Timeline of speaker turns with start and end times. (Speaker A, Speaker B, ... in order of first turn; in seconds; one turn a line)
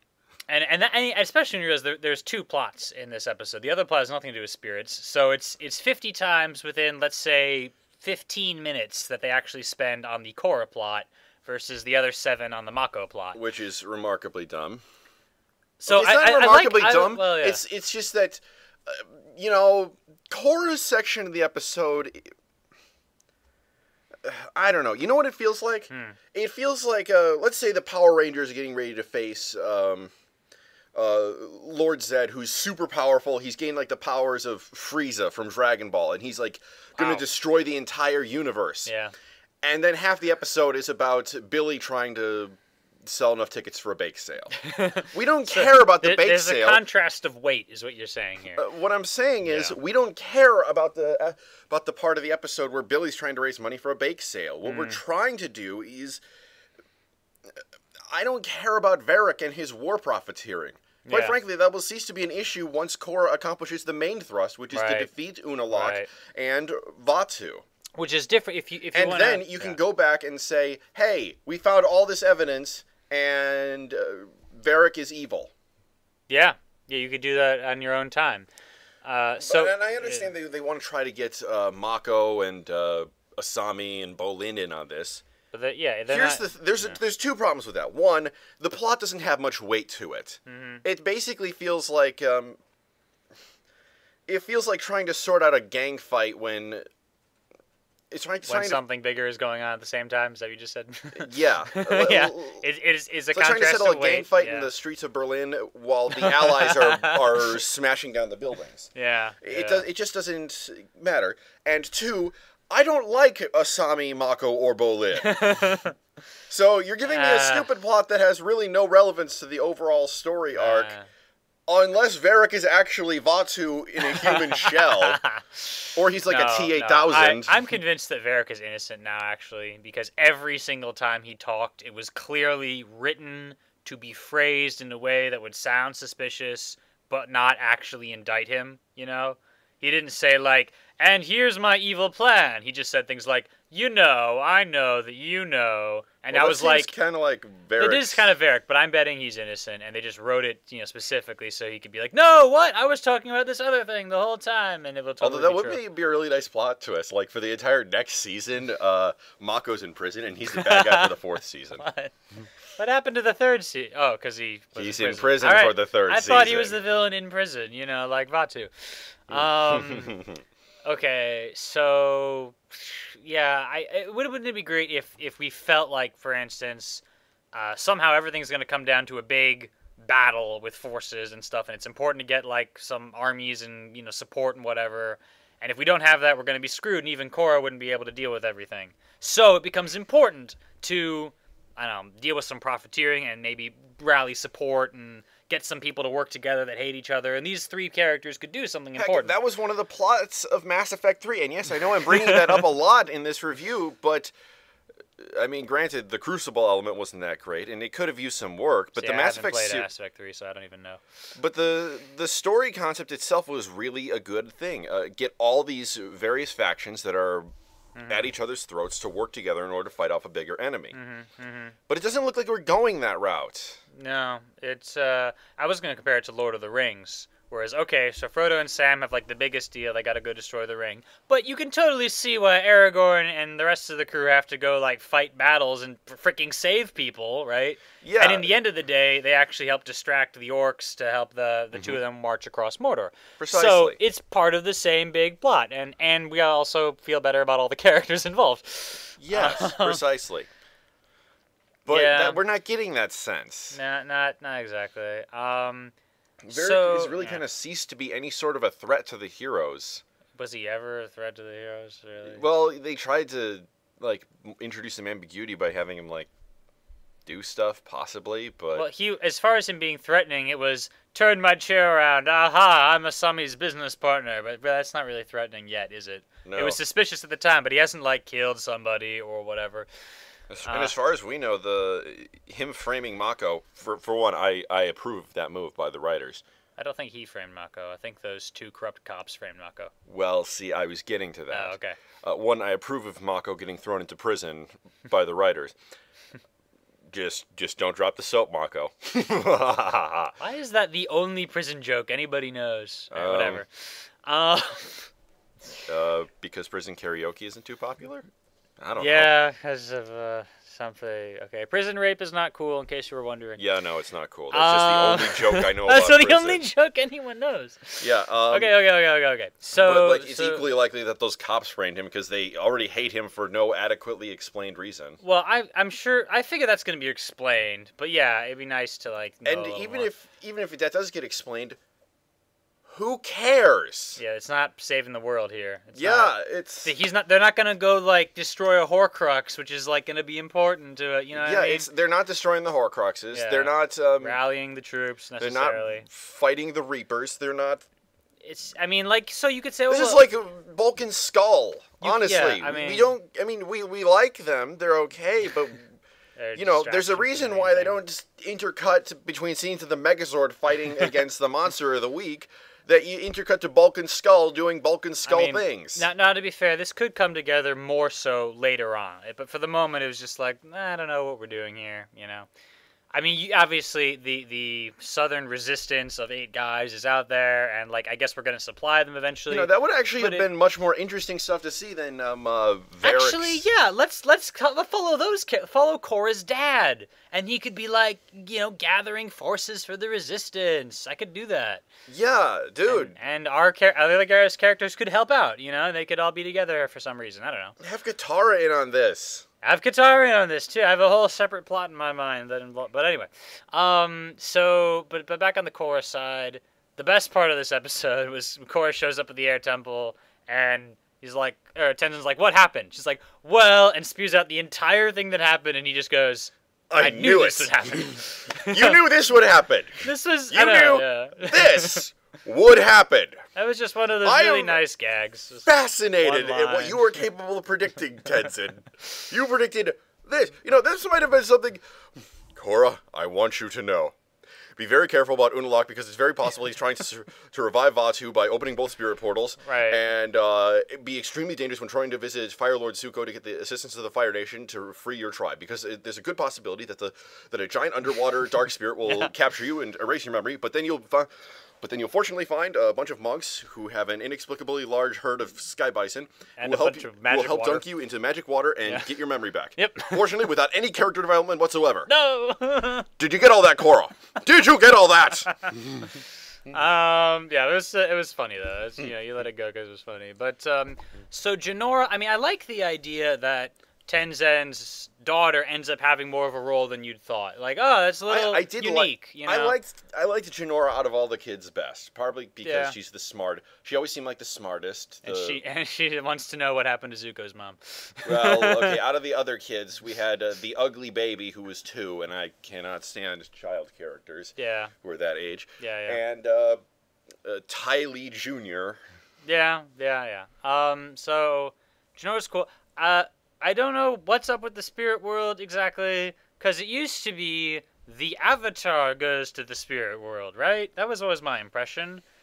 Speaker A: 0.5-13.4
Speaker B: 13.3-14.8
Speaker A: 15.8-17.6
Speaker B: 15.9-22.3
Speaker B: 24.2-30.1
Speaker A: 25.9-26.2
Speaker B: 30.9-38.9
Speaker A: 37.0-37.2
Speaker A: 38.9-39.1
Speaker B: 39.6-46.8
Speaker A: 44.6-48.6
Speaker B: 48.5-56.2
Speaker A: 49.4-49.8
Speaker A: 54.6-55.0
Speaker B: 57.5-67.6
Speaker A: 61.0-61.3
Speaker A: 64.7-65.1
Speaker A: 65.7-66.1
Speaker A: 68.0-69.8
Speaker B: 68.9-75.5
Speaker A: 76.3-78.5
Speaker A: 79.0-80.3
Speaker B: 79.4-85.2
Speaker A: 85.5-87.0
Speaker B: 86.1-92.6
Speaker A: 90.5-90.8
Speaker B: 94.3-96.8
Speaker B: 98.1-98.8
Speaker A: 98.5-104.7
Speaker B: 101.1-102.6
Speaker B: 103.3-108.9
Speaker A: 106.1-107.6
Speaker A: 108.9-109.8
Speaker B: 109.4-115.4
Speaker A: 115.2-116.0
Speaker B: 116.5-120.9
Speaker A: 117.0-117.7
Speaker A: 120.5-121.1
Speaker B: 121.7-125.2
Speaker A: 124.0-146.9
Speaker B: 125.9-127.5
Speaker B: 146.3-148.3
Speaker A: 147.8-155.8
Speaker B: 155.2-161.8
Speaker A: 160.5-161.2
Speaker A: 161.8-162.1
Speaker A: 162.8-170.2
Speaker B: 164.8-166.8
Speaker B: 169.3-170.4
Speaker A: 170.8-199.3
Speaker B: 198.9-204.3
Speaker A: 202.0-202.7
Speaker B: 205.2-209.9
Speaker A: 209.0-211.0
Speaker B: 211.3-217.5
Speaker A: 217.9-218.3
Speaker B: 218.1-220.9
Speaker A: 220.9-221.8
Speaker B: 221.9-223.8
Speaker A: 223.9-250.0
Speaker B: 238.0-238.5
Speaker B: 243.4-244.0
Speaker B: 249.2-250.5
Speaker B: 251.8-253.8
Speaker A: 251.9-252.4
Speaker A: 253.7-255.9
Speaker B: 256.4-260.0
Speaker A: 256.5-257.4
Speaker A: 260.4-262.4
Speaker B: 262.2-266.3
Speaker B: 267.2-268.9
Speaker A: 268.7-279.9
Speaker B: 276.4-276.8
Speaker B: 280.5-286.4
Speaker A: 280.6-280.9
Speaker A: 286.8-289.9
Speaker B: 290.1-295.8
Speaker A: 291.5-292.0
Speaker B: 297.1-300.3
Speaker A: 300.4-305.1
Speaker B: 303.1-303.6
Speaker B: 305.9-308.3
Speaker B: 308.8-309.3
Speaker A: 308.9-313.6
Speaker B: 313.6-316.6
Speaker A: 314.5-320.6
Speaker B: 318.0-318.7
Speaker B: 319.8-325.2
Speaker A: 325.2-330.1
Speaker B: 329.4-331.8
Speaker B: 332.9-334.2
Speaker A: 334.2-341.9
Speaker B: 335.9-336.9
Speaker B: 341.3-344.4
Speaker A: 343.3-346.1
Speaker B: 345.4-347.8
Speaker A: 348.4-350.2
Speaker B: 349.9-356.0
Speaker A: 352.0-353.1
Speaker A: 356.4-358.0
Speaker B: 356.5-366.1
Speaker A: 365.2-372.5
Speaker A: 373.1-380.4
Speaker B: 379.5-383.6
Speaker A: 383.0-391.8
Speaker B: 392.1-393.1
Speaker A: 392.8-397.8
Speaker B: 397.8-399.4
Speaker A: 399.6-419.0
Speaker B: 416.9-423.4
Speaker A: 420.0-422.0
Speaker A: 423.5-425.7
Speaker B: 424.2-424.8
Speaker B: 425.6-431.8
Speaker A: 426.2-427.0
Speaker B: 432.5-434.1
Speaker B: 434.8-462.1
Speaker A: 439.6-440.0
Speaker A: 456.6-457.9
Speaker A: 458.9-459.1
Speaker A: 459.8-460.4
Speaker A: 462.1-463.1
Speaker B: 463.2-466.1
Speaker A: 465.5-466.1
Speaker A: 466.7-479.8
Speaker B: 478.3-485.6
Speaker A: 482.6-482.9
Speaker A: 485.2-489.0
Speaker B: 488.2-496.8
Speaker A: 494.6-494.9
Speaker A: 495.8-496.2
Speaker B: 497.4-499.0
Speaker A: 499.4-512.2